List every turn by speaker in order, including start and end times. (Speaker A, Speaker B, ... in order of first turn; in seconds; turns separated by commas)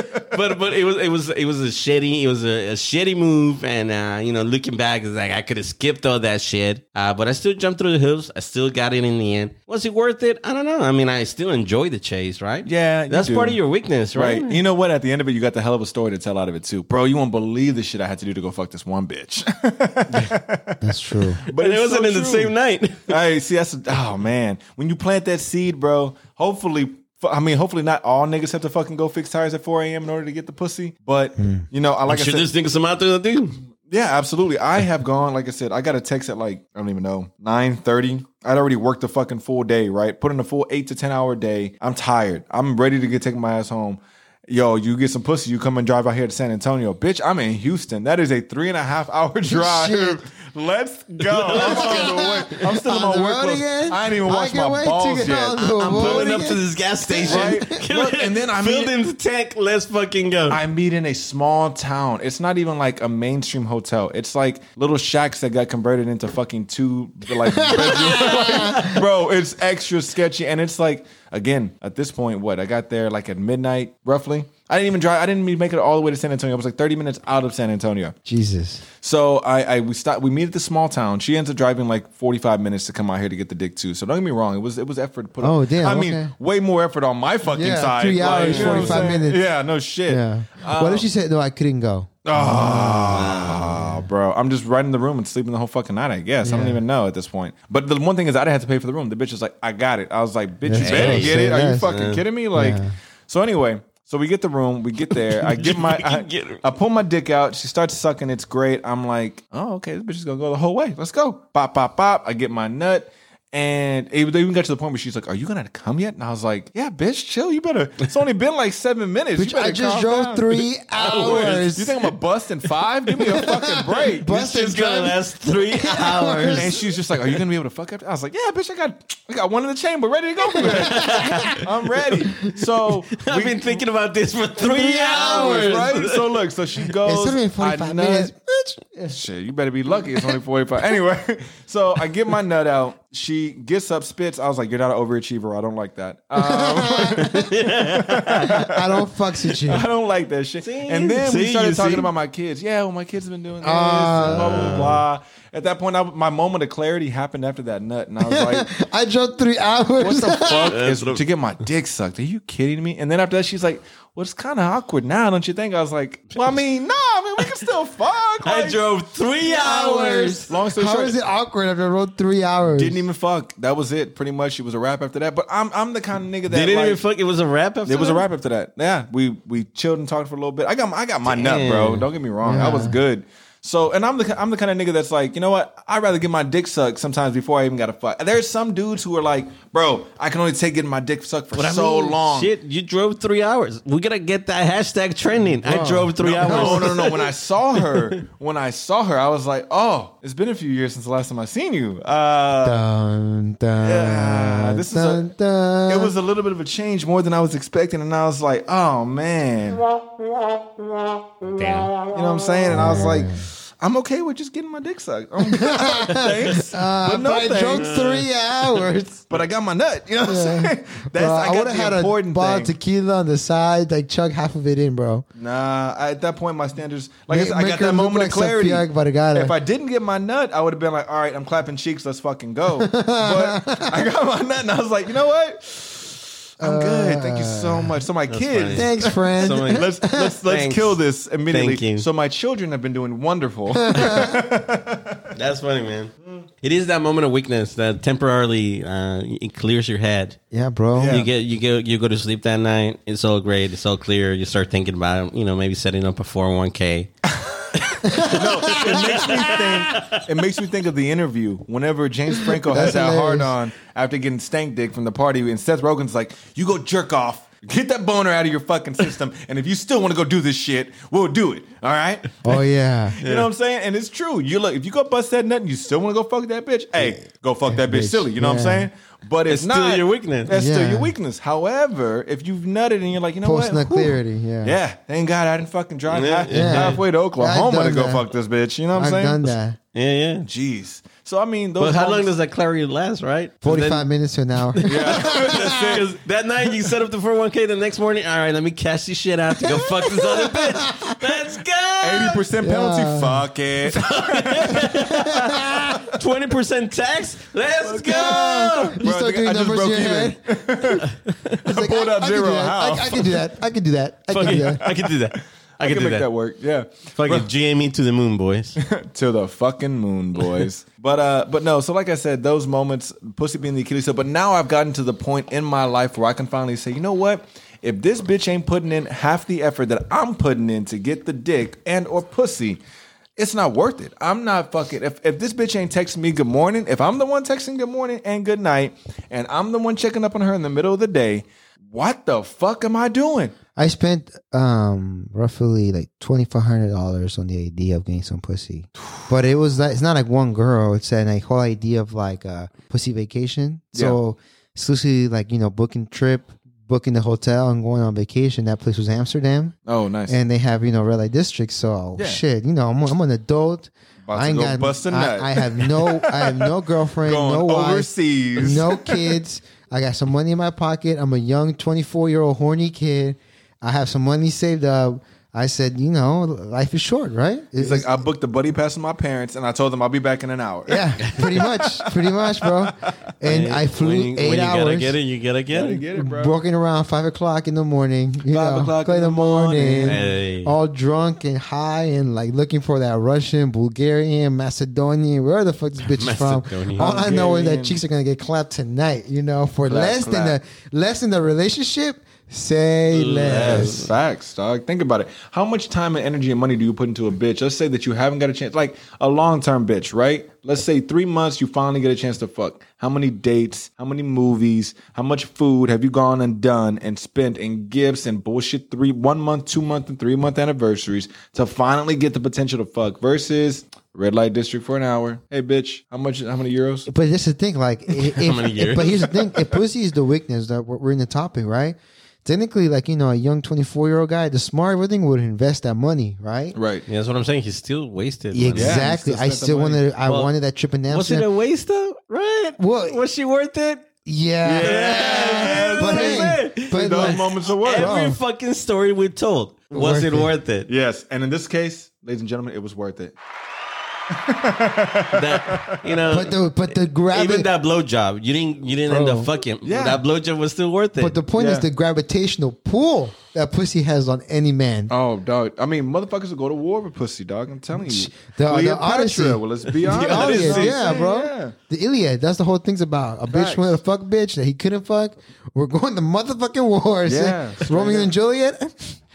Speaker A: 0.2-14.6, Speaker B: 12.6-13.6, Speaker B: 14.1-22.5, Speaker C: 20.8-21.4, Speaker A: 21.5-23.2, Speaker B: 23.1-32.5, Speaker C: 31.4-31.6, Speaker A: 32.1-33.6, Speaker B: 33.9-56.4, Speaker C: 49.4-50.2, Speaker A: 51.3-52.6, Speaker C: 51.5-57.7, Speaker A: 55.5-60.6, Speaker B: 57.2-58.9, Speaker B: 60.5-78.1, Speaker C: 67.4-69.0, Speaker A: 67.8-69.0, Speaker C: 78.2-78.8, Speaker B: 79.0-91.0, Speaker C: 85.4-86.3, Speaker C: 87.5-89.4, Speaker A: 88.2-89.2, Speaker C: 90.1-94.0, Speaker B: 92.2-124.8, Speaker A: 93.1-93.8, Speaker C: 96.4-96.8, Speaker C: 100.6-101.9, Speaker A: 100.8-102.2, Speaker C: 102.5-102.9, Speaker A: 105.3-106.6, Speaker C: 119.3-122.1, Speaker A: 121.0-121.6, Speaker C: 123.2-125.2, Speaker A: 124.3-126.8, Speaker C: 125.7-126.8, Speaker B: 126.5-133.8, Speaker C: 130.6-131.6, Speaker A: 130.6-131.7, Speaker A: 133.1-136.3, Speaker B: 134.6-138.3, Speaker C: 135.0-135.8, Speaker C: 137.0-139.1, Speaker B: 139.1-158.7, Speaker C: 146.3-147.5, Speaker A: 147.1-148.6, Speaker C: 148.3-149.9, Speaker A: 150.6-152.1, Speaker C: 153.6-155.0, Speaker A: 154.2-155.0, Speaker C: 158.2-160.8, Speaker B: 160.0-168.8, Speaker A: 160.6-161.2, Speaker A: 168.4-170.5, Speaker C: 169.4-173.0, Speaker B: 170.4-171.2, Speaker B: 172.6-177.0, Speaker A: 176.5-178.2, Speaker B: 177.8-192.5, Speaker A: 181.2-182.1, Speaker C: 182.4-183.0, Speaker A: 191.5-198.2, Speaker C: 195.5-197.1, Speaker B: 196.2-202.8, Speaker C: 202.6-206.1, Speaker B: 203.8-205.3, Speaker B: 205.9-209.8, Speaker A: 211.4-211.9, Speaker B: 212.0-218.1, Speaker C: 212.7-213.4, Speaker C: 215.4-219.3, Speaker A: 217.8-218.3, Speaker B: 219.3-222.7, Speaker C: 220.2-225.2, Speaker B: 225.4-245.2, Speaker C: 227.3-229.5, Speaker C: 232.8-234.1, Speaker C: 236.6-238.0, Speaker A: 238.3-241.0, Speaker C: 238.7-240.4, Speaker A: 241.5-242.1, Speaker C: 243.7-244.4, Speaker A: 245.3-250.4, Speaker C: 250.5-251.2, Speaker B: 250.9-251.3, Speaker A: 251.0-257.1, Speaker B: 257.4-289.5, Speaker A: 257.7-260.2, Speaker C: 258.0-259.8, Speaker C: 262.5-263.5, Speaker C: 272.4-273.2, Speaker A: 273.2-273.5, Speaker C: 277.7-278.9, Speaker A: 279.5-280.5, Speaker C: 280.5-281.1, Speaker C: 283.4-284.8, Speaker A: 286.1-287.0, Speaker C: 286.5-288.3, Speaker C: 288.9-289.8, Speaker A: 289.9-290.5, Speaker B: 290.4-292.3, Speaker A: 291.8-294.1, Speaker C: 293.6-296.0, Speaker A: 294.6-302.4, Speaker B: 294.9-296.1, Speaker C: 299.8-301.1, Speaker B: 302.0-304.9, Speaker C: 302.6-303.5, Speaker A: 303.9-309.0, Speaker C: 304.7-306.0, Speaker B: 307.9-313.4, Speaker C: 308.1-310.4, Speaker A: 311.0-311.6, Speaker C: 311.6-314.8, Speaker A: 314.3-316.3, Speaker B: 314.4-317.5, Speaker A: 317.1-318.8, Speaker B: 318.8-332.8, Speaker B: 333.4-343.5, Speaker C: 343.8-359.7, Speaker B: 353.9-354.2, Speaker B: 359.9-360.4, Speaker C: 360.3-378.2, Speaker B: 362.2-362.4, Speaker B: 364.2-369.4, Speaker B: 377.8-381.0, Speaker C: 380.9-385.2, Speaker A: 381.2-381.6, Speaker B: 381.6-381.9, Speaker A: 383.4-386.0, Speaker B: 385.7-386.5, Speaker C: 386.1-404.1, Speaker B: 388.5-390.3, Speaker A: 390.0-390.7, Speaker A: 396.0-397.1, Speaker B: 397.0-398.0, Speaker B: 399.9-400.6, Speaker A: 403.1-404.1, Speaker B: 403.4-427.1, Speaker C: 427.1-436.8, Speaker A: 428.1-429.4, Speaker B: 436.7-437.1, Speaker A: 437.1-439.1, Speaker C: 438.5-441.5, Speaker B: 438.8-440.0, Speaker A: 440.2-440.5, Speaker A: 441.1-444.1, Speaker C: 442.8-443.2, Speaker C: 444.2-448.4, Speaker B: 444.6-448.1, Speaker A: 444.8-450.9, Speaker C: 449.9-450.5, Speaker B: 450.9-453.3, Speaker B: 454.3-456.0, Speaker A: 455.3-456.6, Speaker C: 456.3-457.7, Speaker A: 457.3-461.4, Speaker C: 459.1-459.5, Speaker B: 459.8-460.2, Speaker C: 461.2-465.1, Speaker B: 461.6-461.9, Speaker B: 465.1-471.7, Speaker C: 467.9-479.2, Speaker A: 470.0-471.2, Speaker B: 473.5-473.9, Speaker B: 477.2-478.3